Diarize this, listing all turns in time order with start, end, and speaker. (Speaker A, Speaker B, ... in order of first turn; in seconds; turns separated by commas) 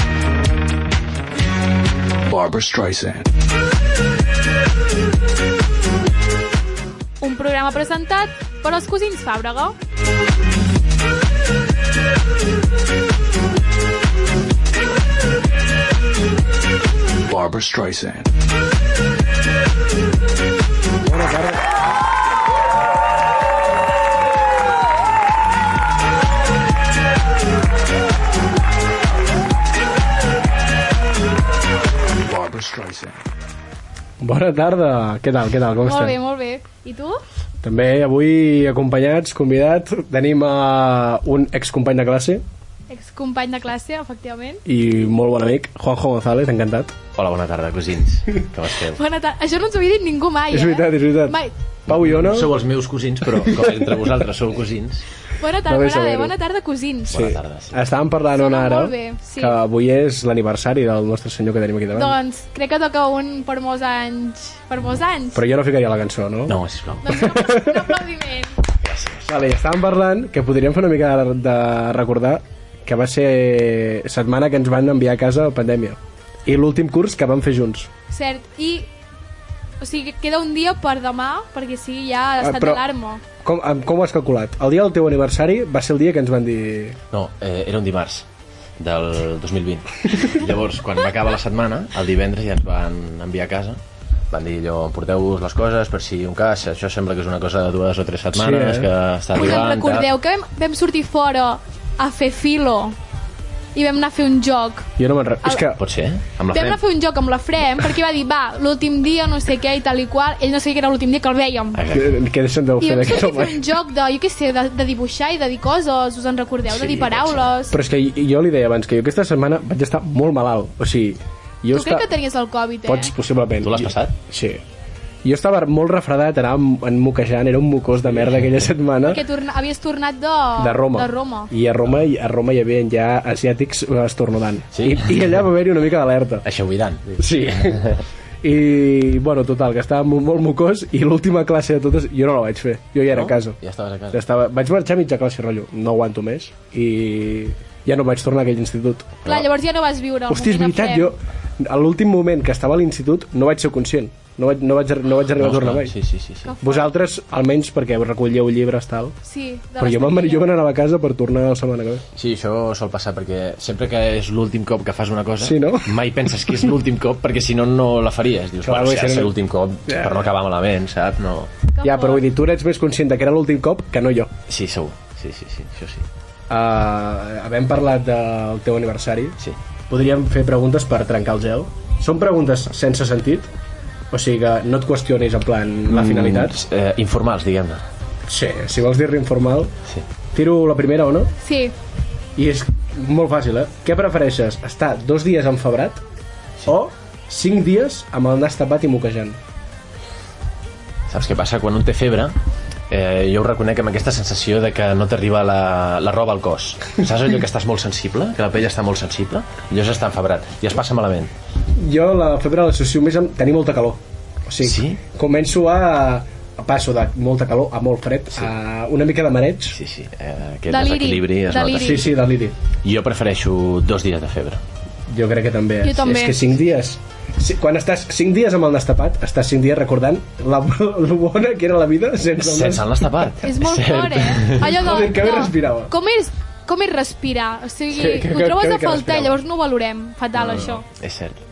Speaker A: 2.3-3.2, Speaker B: 7.2-9.8, Speaker A: 17.3-18.3, Speaker C: 21.0-21.6, Speaker A: 32.2-33.2, Speaker C: 34.2-36.2, Speaker B: 35.8-37.2, Speaker C: 37.6-42.4, Speaker B: 42.9-44.6, Speaker C: 44.6-47.0, Speaker D: 47.1-49.0, Speaker B: 49.0-51.5, Speaker C: 50.5-52.5, Speaker D: 51.9-55.0, Speaker C: 53.4-53.9, Speaker B: 55.4-57.2, Speaker C: 55.7-56.3, Speaker D: 57.1-57.8, Speaker C: 57.1-62.2, Speaker B: 58.3-59.5, Speaker B: 61.9-65.4, Speaker C: 65.3-66.6, Speaker D: 66.5-67.3, Speaker B: 67.0-68.5, Speaker C: 67.1-67.9, Speaker D: 68.8-69.3, Speaker C: 69.2-77.9, Speaker B: 78.1-78.9, Speaker B: 79.8-83.2, Speaker C: 82.4-82.8, Speaker C: 83.4-87.0, Speaker D: 87.1-88.2, Speaker D: 88.8-93.8, Speaker D: 94.3-100.1, Speaker C: 98.3-98.9, Speaker B: 99.3-103.0, Speaker B: 103.7-104.9, Speaker C: 105.0-105.8, Speaker D: 105.8-106.8, Speaker B: 106.5-111.8, Speaker D: 111.8-112.1, Speaker C: 111.9-113.6, Speaker B: 112.8-117.8, Speaker D: 116.7-117.5, Speaker C: 117.7-122.1, Speaker B: 121.7-123.1, Speaker C: 122.8-124.6, Speaker D: 123.6-124.1, Speaker C: 125.2-129.2, Speaker B: 129.0-131.5, Speaker C: 130.6-136.4, Speaker D: 134.7-135.3, Speaker D: 136.4-138.0, Speaker C: 137.2-137.9, Speaker C: 138.4-143.6, Speaker D: 143.1-144.2, Speaker C: 144.1-149.3, Speaker B: 149.2-151.1, Speaker C: 150.3-155.9, Speaker D: 155.4-156.5, Speaker B: 156.4-156.9, Speaker C: 156.6-159.2, Speaker B: 159.2-160.5, Speaker C: 159.8-162.0, Speaker D: 162.2-171.5, Speaker C: 165.4-165.9, Speaker C: 168.6-169.3, Speaker C: 169.9-170.2, Speaker B: 171.7-172.2, Speaker C: 171.8-174.3, Speaker D: 174.5-176.0, Speaker C: 176.5-179.3, Speaker C: 179.9-183.5, Speaker C: 184.1-186.5, Speaker D: 185.9-187.8, Speaker C: 188.3-189.7, Speaker C: 190.3-191.3, Speaker B: 191.4-191.7, Speaker C: 192.3-196.0, Speaker C: 196.7-199.4, Speaker D: 201.1-202.3, Speaker D: 202.9-211.3, Speaker C: 211.7-219.8, Speaker D: 214.6-215.0, Speaker D: 219.7-222.1, Speaker B: 220.7-222.1, Speaker C: 221.7-222.5, Speaker D: 222.8-224.6, Speaker C: 225.1-233.0, Speaker B: 225.8-226.4, Speaker D: 232.4-234.8, Speaker B: 233.4-240.8, Speaker C: 234.6-235.9, Speaker C: 237.9-239.4, Speaker D: 240.5-241.4